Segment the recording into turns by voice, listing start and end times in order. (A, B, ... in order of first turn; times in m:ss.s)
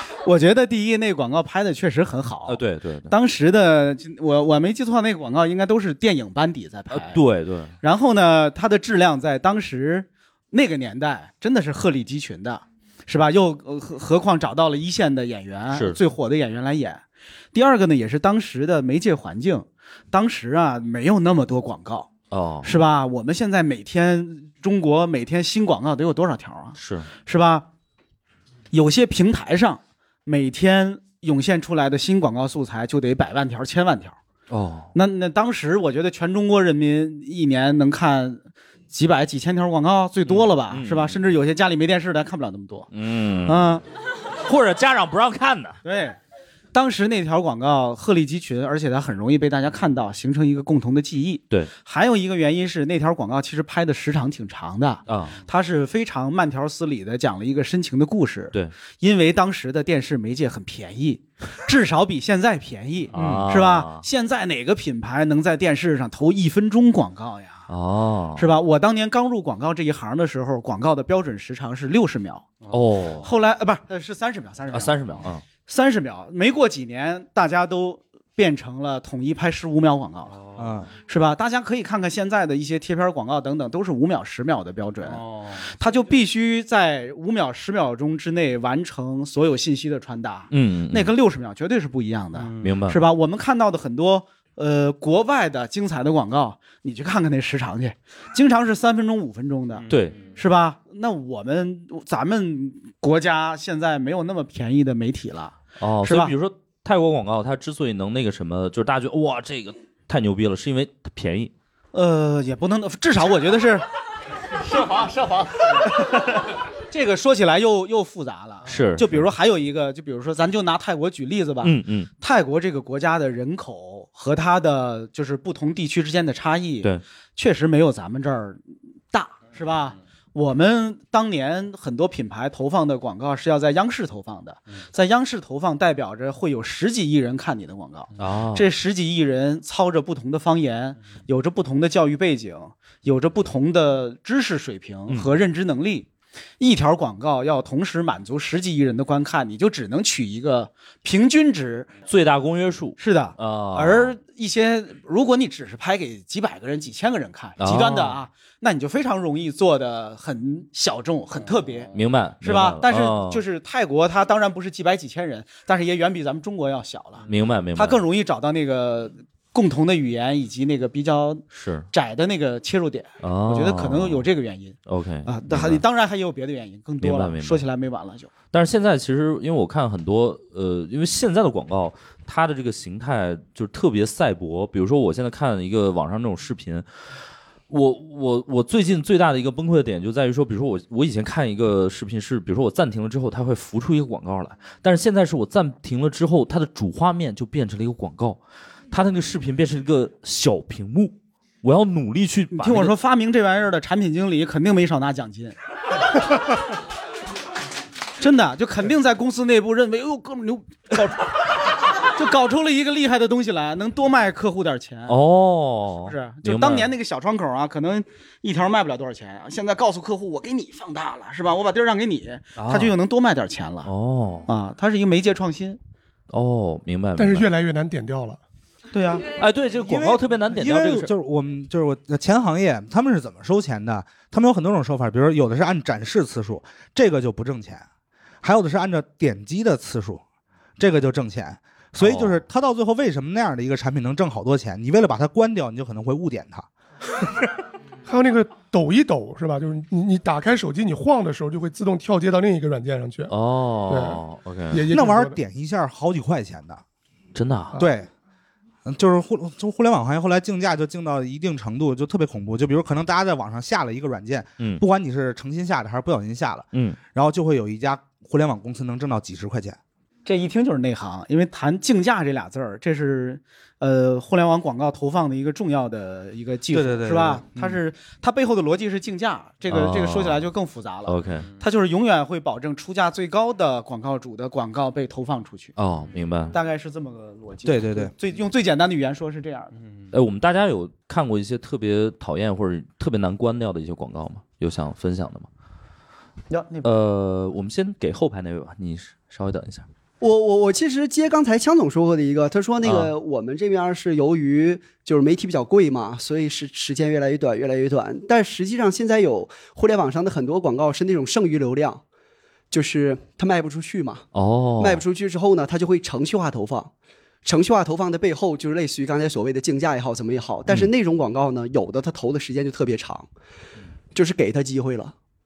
0:00.2-0:07.2 A
0:02.5-0:03.1 B
0:06.9-0:07.8 B
0:07.8-0:17.0 A
0:15.7-0:16.0 B
0:17.5-0:22.1 A
0:22.3-0:22.7 B
0:22.6-0:27.7 A
0:26.8-0:27.1 B
0:28.7-0:34.2 A
0:34.5-0:34.9 B
0:34.9-0:42.9 A
0:40.3-0:41.2 B
0:42.9-0:43.8 B
0:43.5-0:43.8 A
0:44.5-0:45.8 B
0:45.8-0:46.2 A
0:46.7-1:07.7 A
0:55.1-0:55.4 B
1:03.1-1:04.0 B
1:03.2-1:03.5 C
1:07.7-1:08.5 B
1:08.4-1:12.5 A
1:12.7-1:13.3 B
1:13.2-1:15.0 A
1:14.7-1:15.4 B
1:15.7-1:20.3 A
1:20.6-1:20.9 C
1:21.1-1:25.2 A
1:25.1-1:25.7 D
1:25.7-1:46.3 A
1:30.5-1:31.1 B
1:32.4-1:32.7 D
1:32.6-1:33.0 B
1:39.8-1:40.3 D
1:39.9-1:40.2 B
1:45.8-1:51.5 B
1:51.9-1:53.8 A
1:54.6-1:56.5 D
1:56.9-2:08.6 A
1:58.7-1:59.3 B
2:01.6-2:02.1 B
2:09.1-2:26.1 A
2:18.2-2:18.6 B
2:26.6-2:31.9 A
2:32.1-2:34.1 B
2:33.0-2:47.2 A
2:37.6-2:38.2 B
2:41.9-2:43.4 B
2:47.3-2:48.0 B
2:47.8-2:58.3 A
2:51.5-2:51.9 B
2:53.2-2:54.3 B
2:54.9-2:55.8 B
2:57.0-2:57.6 B
2:58.5-3:06.9 B
3:07.7-3:18.4 B
3:18.9-3:22.9 B
3:22.5-3:25.6 A
3:28.2-3:31.4 A
3:32.0-3:35.2 A
3:35.1-3:36.9 B
3:36.0-3:43.9 A
3:42.6-3:42.9 B
3:43.8-3:44.5 B
3:44.5-3:45.8 A
3:46.3-3:47.5 B
3:47.2-3:48.4 E
3:48.9-3:49.3 A
3:49.4-3:51.1 B
3:49.8-3:57.8 C
3:58.4-4:00.2 C
4:00.8-4:06.7 C
4:02.0-4:02.4 B
4:08.1-4:13.3 E
4:13.3-4:14.8 B
4:13.9-4:15.4 E
4:14.9-4:16.8 C
4:17.4-4:17.8 B
4:17.8-4:18.1 C
4:18.8-4:29.8 C
4:26.7-4:27.0 B
4:30.3-4:45.7 A
4:36.7-4:37.8 C
4:39.7-4:40.5 B
4:41.1-4:41.5 B
4:45.8-4:46.6 B
4:46.5-4:49.7 A
4:47.6-4:48.1 C
4:50.1-4:55.5 B
4:56.5-4:56.9 A
4:56.8-4:59.9 B
5:00.2-5:12.0 F
5:02.8-5:03.1 B
5:12.7-5:14.2 F
5:14.3-5:15.0 B
5:14.8-5:16.9 F
5:17.4-5:23.3 F
5:24.2-5:25.1 F